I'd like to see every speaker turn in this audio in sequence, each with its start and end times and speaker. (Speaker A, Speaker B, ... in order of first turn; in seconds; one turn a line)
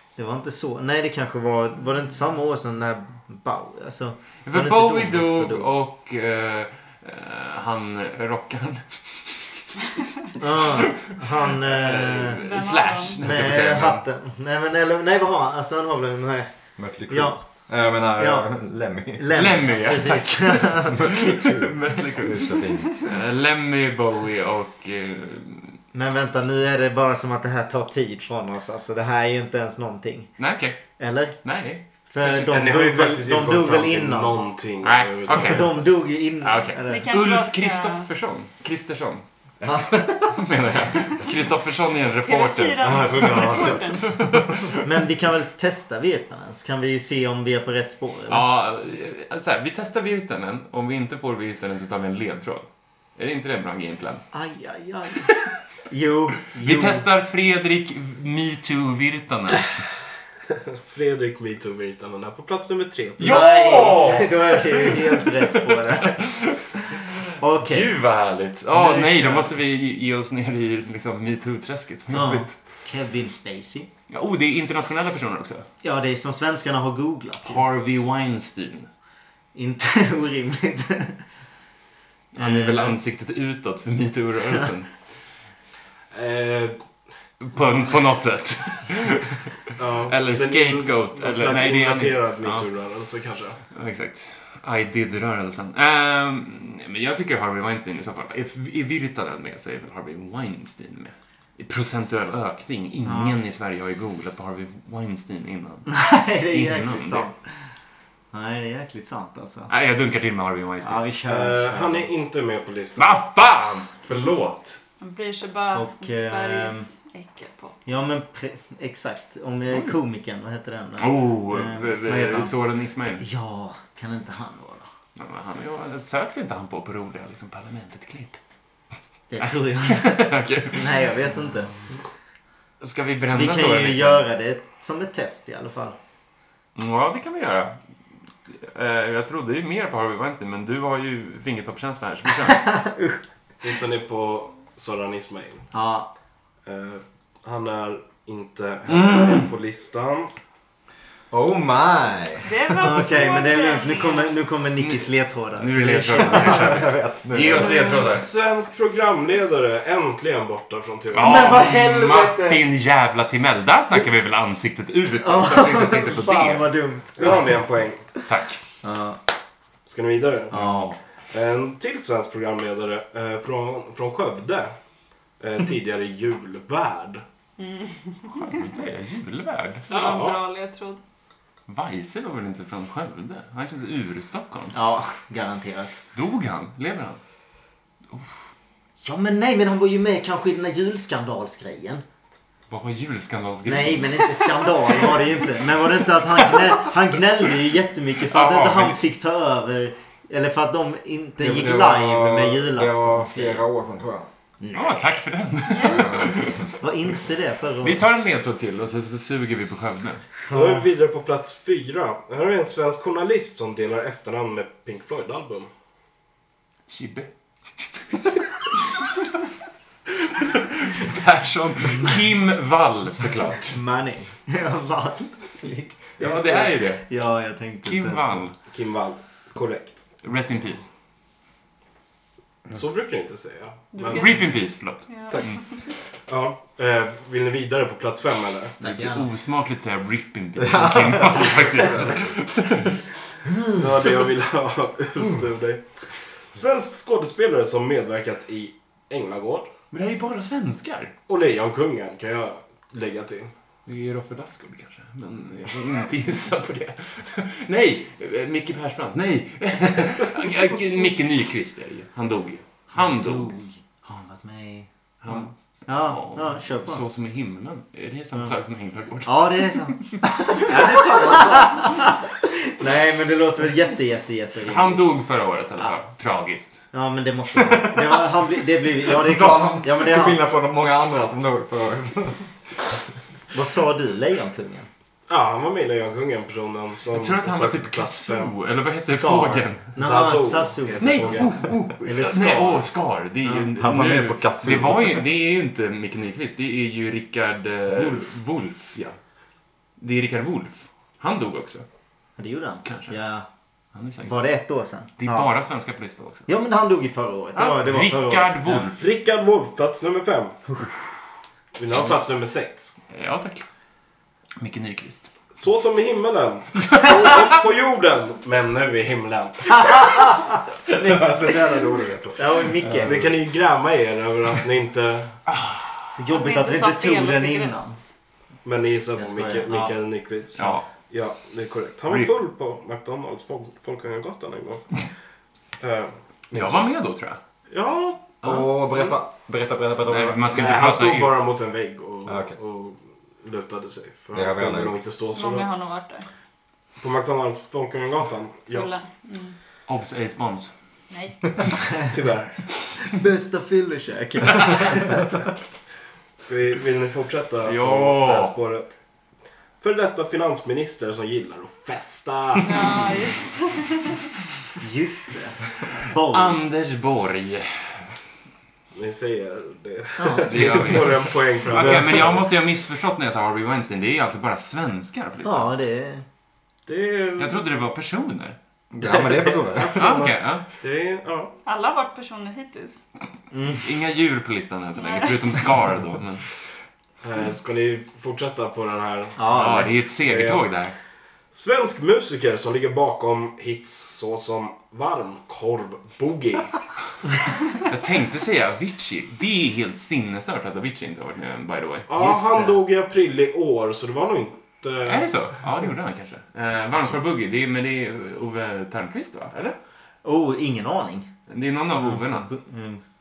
Speaker A: 0.2-5.7
Speaker B: 4.4-9.7
Speaker A: 10.4-12.4
Speaker B: 10.7-14.0
Speaker C: 12.4-13.2
Speaker A: 13.2-16.5
Speaker D: 16.8-19.5
Speaker A: 17.1-17.4
Speaker A: 18.2-18.5
Speaker A: 19.1-21.1
Speaker B: 19.3-25.8
Speaker D: 20.9-23.1
Speaker A: 25.9-30.4
Speaker B: 30.4-32.5
Speaker A: 31.0-31.4
Speaker A: 32.1-34.4
Speaker E: 32.5-35.8
Speaker B: 34.8-35.8
Speaker A: 35.4-37.1
Speaker B: 36.4-39.2
Speaker C: 36.9-38.1
Speaker D: 39.6-40.4
Speaker B: 40.3-44.9
Speaker C: 42.2-44.1
Speaker D: 42.8-44.4
Speaker A: 44.8-48.5
Speaker B: 48.3-54.2
Speaker A: 54.3-55.3
Speaker A: 55.9-57.0
Speaker B: 56.5-59.7
Speaker E: 60.8-63.5
Speaker B: 63.2-72.6
Speaker A: 63.2-66.3
Speaker A: 67.4-68.0
Speaker A: 68.7-69.5
Speaker A: 72.1-73.9
Speaker B: 74.1-75.7
Speaker A: 75.8-77.6
Speaker B: 77.4-78.9
Speaker A: 79.5-81.2
Speaker B: 82.3-85.0
Speaker A: 82.3-83.0
Speaker E: 86.1-86.8
Speaker B: 87.4-92.7
Speaker E: 89.8-93.6
Speaker B: 93.7-107.3
Speaker A: 103.0-103.4
Speaker A: 105.9-107.4
Speaker A: 108.3-109.7
Speaker B: 109.7-111.0
Speaker A: 110.8-112.1
Speaker E: 111.3-113.2
Speaker B: 113.0-114.8
Speaker C: 115.0-117.8
Speaker A: 115.7-116.9
Speaker A: 117.9-122.5
Speaker B: 119.7-120.0
Speaker B: 121.0-123.3
Speaker A: 123.2-124.9
Speaker B: 125.2-128.4
Speaker A: 129.3-131.8
Speaker B: 129.4-131.0
Speaker B: 132.8-134.3
Speaker A: 133.3-136.0
Speaker B: 136.8-137.8
Speaker B: 138.5-142.7
Speaker A: 142.5-143.2
Speaker E: 143.6-145.7
Speaker A: 145.7-146.1
Speaker E: 146.7-150.3
Speaker B: 148.9-149.4
Speaker D: 151.3-152.6
Speaker C: 152.4-154.3
Speaker A: 152.8-156.8
Speaker B: 154.8-158.3
Speaker D: 156.2-158.0
Speaker E: 157.6-161.6
Speaker B: 161.1-166.7
Speaker A: 161.2-162.6
Speaker A: 165.2-167.6
Speaker E: 167.2-168.0
Speaker B: 168.3-168.6
Speaker A: 168.8-169.2
Speaker E: 169.9-170.8
Speaker A: 170.5-171.0
Speaker E: 171.3-174.7
Speaker E: 175.4-177.2
Speaker C: 177.6-178.7
Speaker B: 178.3-179.9
Speaker C: 179.9-181.0
Speaker E: 179.9-180.4
Speaker B: 181.7-184.8
Speaker A: 184.7-186.0
Speaker B: 186.1-187.2
Speaker B: 188.1-188.4
Speaker A: 189.0-192.0
Speaker B: 192.7-194.7
Speaker A: 193.7-203.6
Speaker B: 198.3-199.0
Speaker D: 201.4-204.3
Speaker A: 204.6-205.0
Speaker B: 204.7-206.7
Speaker C: 205.7-206.2
Speaker D: 205.8-206.7
Speaker A: 206.8-208.0
Speaker B: 207.8-210.2
Speaker A: 210.5-210.9
Speaker E: 210.5-215.7
Speaker B: 216.9-217.3
Speaker B: 220.3-223.8
Speaker A: 223.7-228.4
Speaker B: 226.2-227.1
Speaker B: 227.8-228.6
Speaker E: 228.7-230.0
Speaker B: 230.2-230.9
Speaker E: 232.7-234.4
Speaker C: 233.9-235.6
Speaker B: 234.1-235.6
Speaker E: 236.3-238.8
Speaker A: 238.8-239.3
Speaker B: 238.8-243.0
Speaker D: 240.6-242.3
Speaker E: 243.8-249.7
Speaker B: 249.9-251.1
Speaker E: 251.3-253.5
Speaker B: 253.9-263.6
Speaker A: 263.0-267.0
Speaker B: 265.2-270.2
Speaker A: 269.2-275.1
Speaker D: 271.0-271.6
Speaker B: 274.6-276.8
Speaker A: 276.9-280.4
Speaker D: 277.6-278.3
Speaker D: 279.0-282.9
Speaker A: 283.5-284.9
Speaker E: 285.3-288.5
Speaker B: 287.1-289.9
Speaker A: 289.0-292.9
Speaker E: 290.0-291.7
Speaker B: 291.0-299.2
Speaker A: 293.4-293.7
Speaker D: 293.8-295.2
Speaker B: 300.0-301.9
Speaker A: 302.4-303.5
Speaker B: 302.9-303.1
Speaker B: 303.9-304.3
Speaker A: 304.2-305.5
Speaker B: 305.2-306.5
Speaker A: 306.5-308.9
Speaker B: 307.6-309.0
Speaker E: 308.9-310.6
Speaker A: 310.7-310.9
Speaker E: 311.8-312.9
Speaker B: 313.1-313.6
Speaker B: 314.6-315.3
Speaker E: 315.6-320.1
Speaker A: 319.7-321.3
Speaker D: 320.9-323.3
Speaker A: 322.4-323.3
Speaker E: 323.0-325.3
Speaker B: 325.5-326.0
Speaker A: 326.1-328.0
Speaker C: 326.3-328.0
Speaker E: 328.6-335.0
Speaker A: 329.2-329.9
Speaker B: 330.6-330.9
Speaker B: 332.1-332.3
Speaker E: 335.8-336.9
Speaker B: 336.5-337.4
Speaker E: 337.7-339.2
Speaker B: 338.4-338.7
Speaker D: 338.4-340.7
Speaker B: 340.1-341.4
Speaker E: 340.5-345.7
Speaker D: 342.3-342.6
Speaker D: 344.3-345.0
Speaker C: 345.3-346.3
Speaker E: 347.0-348.9
Speaker C: 348.7-349.6
Speaker B: 349.9-350.7
Speaker C: 351.1-351.4
Speaker A: 351.8-352.1
Speaker E: 352.1-352.7
Speaker A: 353.0-355.3
Speaker B: 354.5-354.8
Speaker E: 356.4-358.9
Speaker B: 357.6-358.6
Speaker E: 359.8-362.9
Speaker C: 362.6-364.3
Speaker A: 364.8-366.6
Speaker B: 366.3-368.1
Speaker E: 368.9-372.4
Speaker A: 370.2-370.9
Speaker B: 370.4-375.7
Speaker A: 375.4-376.2
Speaker E: 376.9-377.7
Speaker B: 377.4-378.6
Speaker D: 378.9-380.2
Speaker E: 379.0-381.5
Speaker B: 379.9-380.6
Speaker C: 381.6-383.1
Speaker A: 383.5-383.9
Speaker B: 383.8-386.5
Speaker C: 385.0-385.4
Speaker E: 387.2-389.4
Speaker A: 389.4-390.1
Speaker B: 389.5-390.9
Speaker E: 390.1-390.7
Speaker E: 391.5-396.8
Speaker B: 397.8-402.1
Speaker E: 402.1-405.3
Speaker A: 402.2-402.8
Speaker B: 405.1-409.8
Speaker A: 410.2-411.3
Speaker B: 411.5-412.5
Speaker A: 412.0-413.0